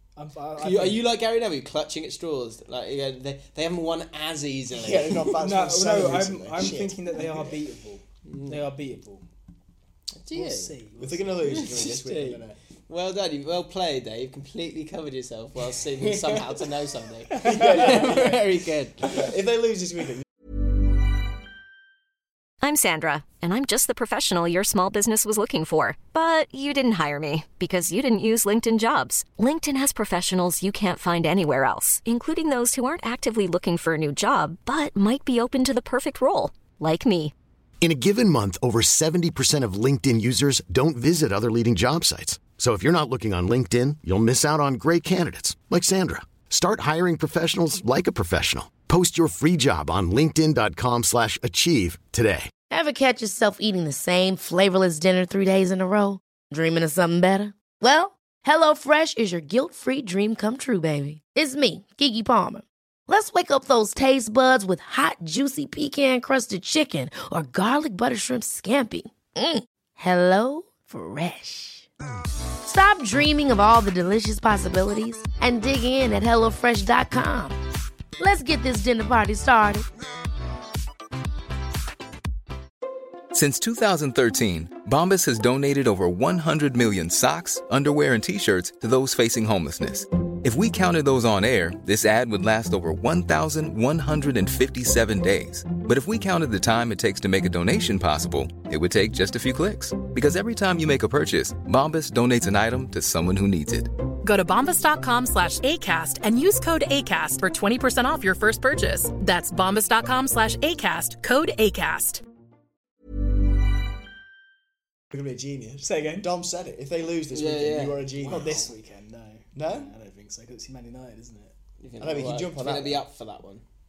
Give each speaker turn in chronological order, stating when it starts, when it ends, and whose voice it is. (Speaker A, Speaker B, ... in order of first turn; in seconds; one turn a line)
Speaker A: 0.2-1.0
Speaker B: 0.6-5.3
Speaker C: 4.7-7.5
Speaker A: 5.4-9.2
Speaker B: 8.2-8.6
Speaker B: 10.2-10.8
Speaker A: 10.3-11.6
Speaker C: 11.0-12.6
Speaker B: 11.5-19.1
Speaker C: 17.4-18.4
Speaker A: 17.5-18.0
Speaker C: 19.1-20.3
Speaker D: 22.6-37.3
Speaker E: 37.8-52.5
Speaker F: 52.7-71.9
Speaker F: 72.6-77.6
Speaker F: 78.2-79.9
Speaker G: 83.3-103.9
Speaker H: 104.2-112.2
Speaker C: 115.1-118.7
Speaker A: 115.8-116.3
Speaker B: 117.3-118.7
Speaker A: 118.2-121.5
Speaker C: 119.5-119.9
Speaker B: 121.8-123.6
Speaker C: 122.0-123.0